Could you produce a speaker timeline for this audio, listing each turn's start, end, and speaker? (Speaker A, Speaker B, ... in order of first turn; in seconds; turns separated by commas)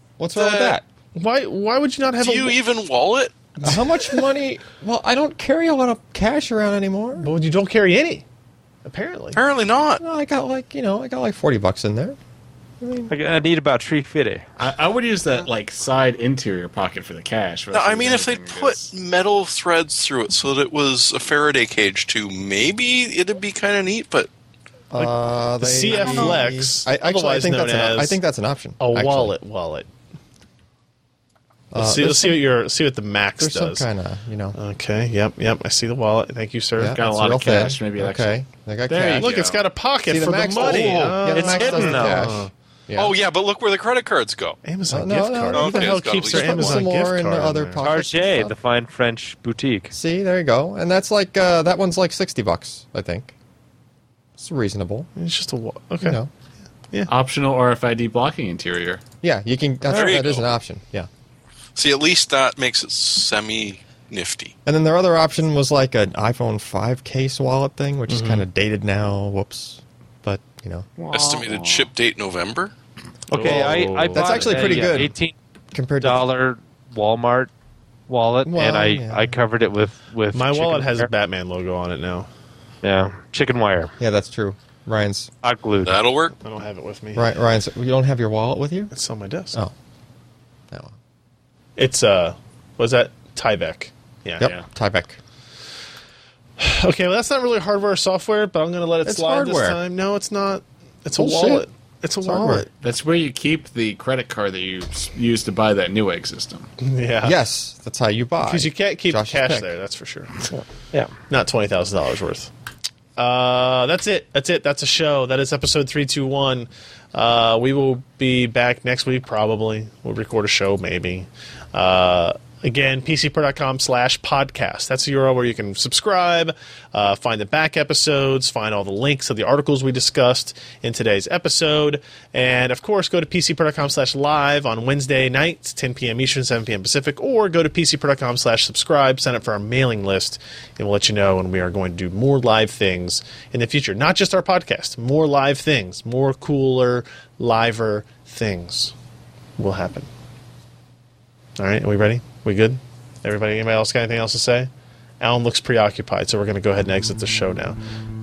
Speaker A: 0.2-0.8, Speaker B: 0.3-0.8, Speaker C: 1.1-2.6, Speaker B: 2.2-3.3, Speaker C: 3.6-4.2, Speaker A: 3.6-7.3, Speaker C: 7.2-8.2, Speaker C: 8.8-9.4, Speaker B: 9.3-10.0, Speaker A: 10.0-12.2, Speaker A: 12.8-13.1, Speaker D: 13.1-14.4, Speaker E: 14.6-18.9, Speaker B: 17.7-24.3, Speaker A: 24.9-29.3, Speaker C: 25.0-28.2, Speaker C: 28.8-29.9, Speaker A: 31.7-32.4, Speaker C: 31.8-33.9, Speaker A: 33.4-34.6, Speaker C: 34.5-37.0, Speaker A: 36.8-39.3, Speaker E: 36.9-39.6, Speaker C: 39.1-42.5, Speaker A: 40.0-43.1, Speaker D: 41.3-42.3, Speaker B: 43.0-44.6, Speaker C: 44.6-47.8, Speaker A: 44.9-48.5, Speaker B: 45.5-46.9, Speaker D: 47.8-49.9, Speaker A: 49.9-53.3, Speaker A: 54.4-55.1, Speaker C: 55.1-56.2, Speaker A: 56.0-56.3, Speaker E: 57.1-59.0, Speaker A: 59.2-61.1, Speaker B: 59.9-60.5, Speaker B: 61.8-64.5, Speaker A: 64.7-70.9, Speaker C: 68.1-68.4, Speaker E: 71.0-71.9, Speaker B: 71.1-72.7, Speaker D: 73.3-75.3, Speaker C: 73.3-74.6, Speaker A: 73.3-75.1, Speaker E: 73.5-74.4, Speaker A: 75.7-76.2, Speaker D: 76.0-77.5, Speaker D: 78.1-81.1, Speaker A: 78.4-79.3, Speaker C: 80.3-82.3, Speaker D: 82.8-83.9, Speaker A: 84.0-85.3, Speaker D: 85.4-86.0, Speaker B: 85.8-86.3, Speaker C: 86.4-87.4, Speaker A: 87.1-88.9, Speaker C: 88.9-89.6, Speaker C: 91.8-94.5, Speaker A: 94.4-95.2, Speaker C: 96.6-102.7, Speaker A: 99.0-99.8, Speaker A: 101.2-101.7, Speaker A: 102.2-102.6, Speaker E: 102.7-106.7, Speaker C: 106.8-107.3, Speaker A: 107.2-109.7, Speaker C: 108.4-110.5, Speaker C: 111.2-112.5, Speaker C: 113.2-148.9, Speaker C: 149.6-150.1, Speaker C: 151.6-157.8